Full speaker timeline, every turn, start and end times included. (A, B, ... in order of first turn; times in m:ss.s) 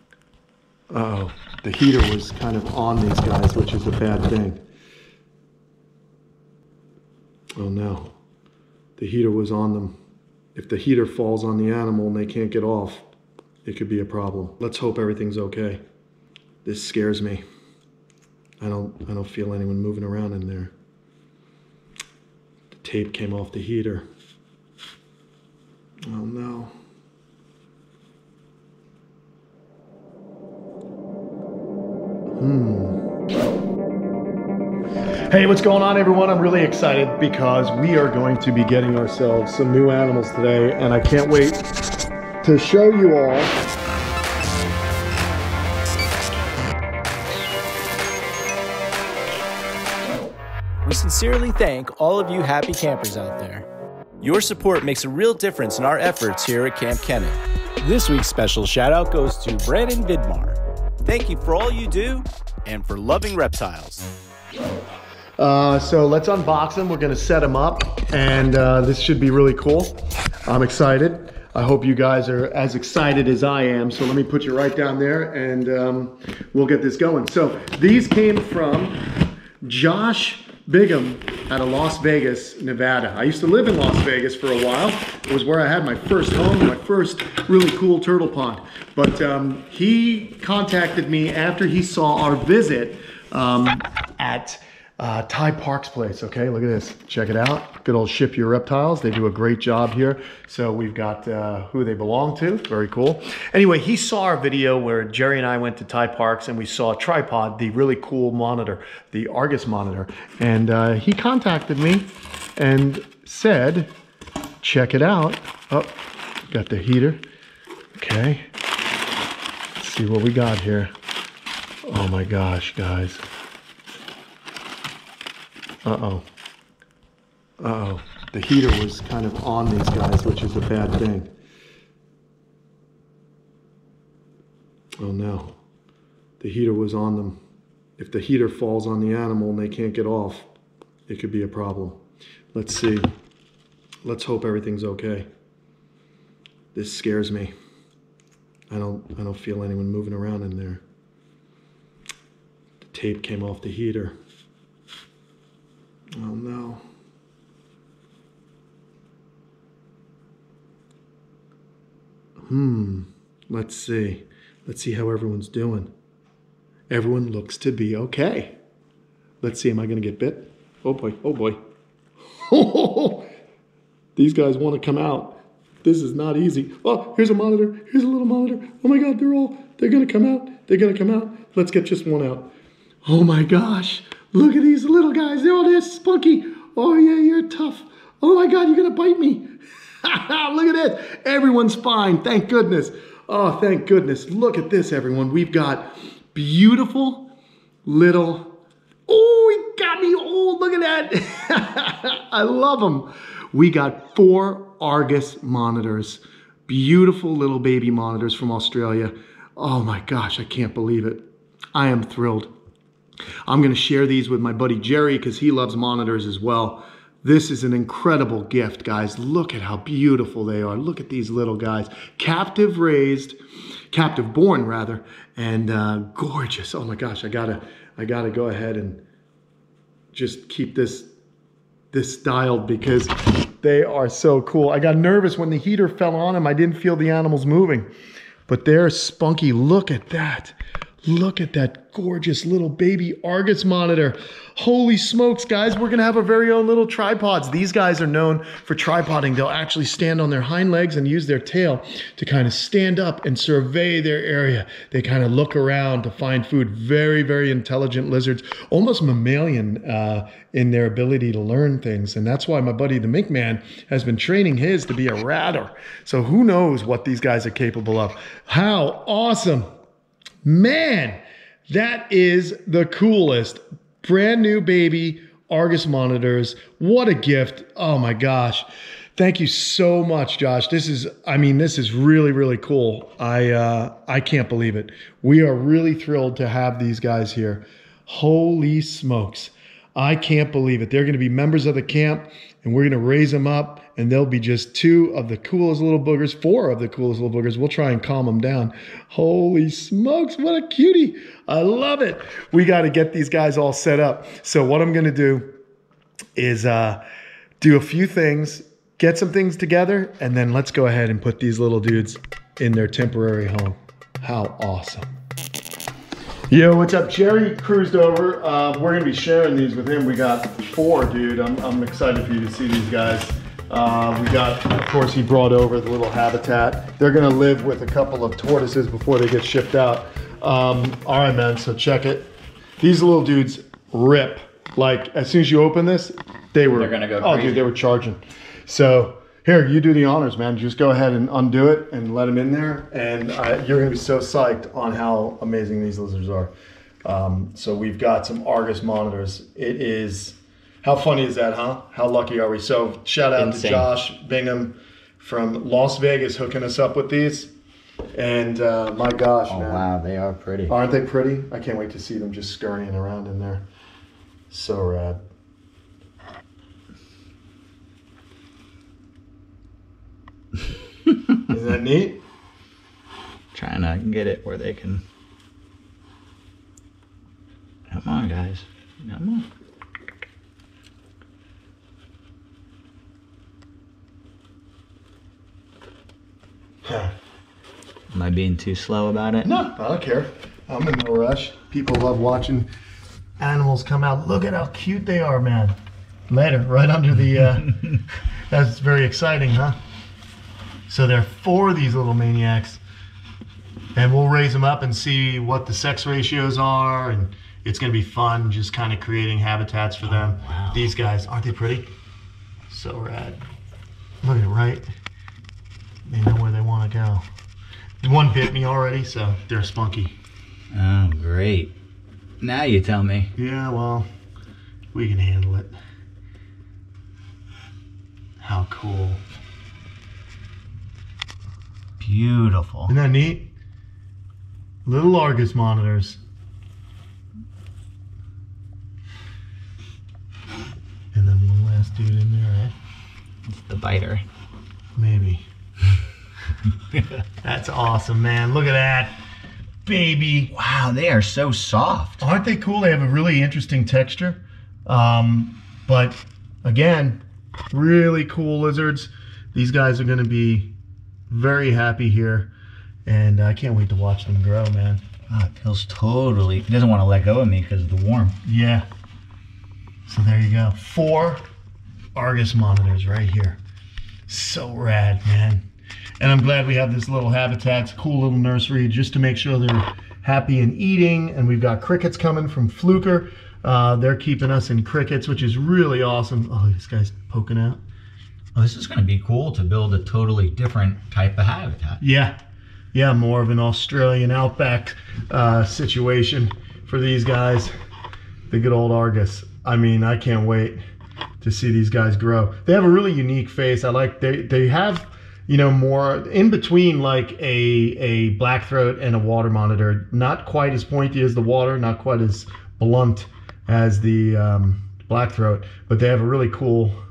0:00.9-0:04.6 A
0:07.6-0:08.1 A
0:09.0-0:10.0 A
0:10.6-0:13.1 A
0:13.6-0:15.8 A
0:16.6-0:17.4 A
0:18.6-0:20.7 A
0:22.7-0:24.0 A
0:26.1-0:26.7 A
0:32.4-0:33.0 A
0:35.3-0:41.6 A
0:42.4-0:43.5 A
0:50.8-0:53.7 B
0:54.2-1:04.1 B
1:05.4-1:09.9 A
1:10.5-1:19.0 A
1:19.6-1:53.9 A
1:54.6-1:56.0 A
1:56.5-1:57.2 A
1:58.0-1:58.4 A
1:59.8-2:00.9 A
2:01.9-2:03.2 A
2:05.8-2:06.2 A
2:07.6-2:11.3 A
2:15.0-2:15.6 A
2:16.4-2:17.4 A
2:18.0-2:20.5 A
2:21.1-2:22.0 A
2:22.5-2:23.1 A
2:24.0-2:25.3 A
2:26.7-2:27.5 A
2:28.7-2:30.8 A
2:32.8-2:34.1 A
2:36.2-2:36.8 A
2:42.5-2:45.9 A
2:46.9-2:48.6 A
2:49.4-2:51.6 A
2:52.5-2:53.3 A
2:54.2-3:02.5 A
3:03.0-3:09.5 A
3:10.0-3:17.3 A
3:17.8-3:32.5 A
3:33.5-3:43.4 A
3:43.9-3:49.0 A
3:50.1-3:51.1 A
3:51.9-3:57.9 A
3:58.5-4:29.7 A
4:30.4-5:05.5 A
5:06.4-5:07.0 A
5:07.6-5:15.1 A
5:16.5-5:46.5 A
5:36.7-5:37.6 C
5:47.0-5:57.5 A
5:53.4-5:53.9 C
5:58.2-5:59.9 A
5:59.5-6:00.8 C
6:00.7-6:03.6 A
6:04.5-6:05.2 A
6:11.5-6:12.2 A
6:13.5-6:15.0 C
6:17.9-6:19.4 C
6:26.8-6:27.1 A
6:28.1-6:29.5 C
6:29.4-6:32.7 A
6:33.4-6:35.8 A
6:36.3-6:39.8 A
6:40.9-6:42.8 A
6:44.0-6:51.9 A
6:50.0-6:50.8 C
6:52.7-6:53.4 A
6:54.2-6:54.8 A
6:56.1-6:57.3 A
6:58.0-7:00.2 A
7:00.7-7:01.7 C
7:02.4-7:03.3 C
7:03.4-7:04.1 A
7:04.9-7:05.7 A
7:08.4-7:09.2 A
7:12.0-7:12.9 C
7:12.9-7:13.5 A
7:14.9-7:16.2 A
7:21.1-7:22.7 A
7:23.5-7:24.2 C
7:25.0-7:25.5 A
7:27.4-7:29.2 A
7:29.8-7:30.5 A
7:30.5-7:32.2 C
7:32.2-7:37.2 A
7:37.7-7:40.7 A
7:41.3-7:42.5 A
7:43.1-7:45.0 A
7:45.3-7:48.4 C
7:48.4-7:48.9 A
7:50.1-7:51.4 A
7:52.2-7:53.6 A
7:54.3-7:55.6 A
7:56.2-8:07.8 A
8:08.6-8:12.0 C
8:12.0-8:12.4 A
8:12.9-8:17.7 A
8:18.5-8:20.8 A
8:21.4-8:37.0 A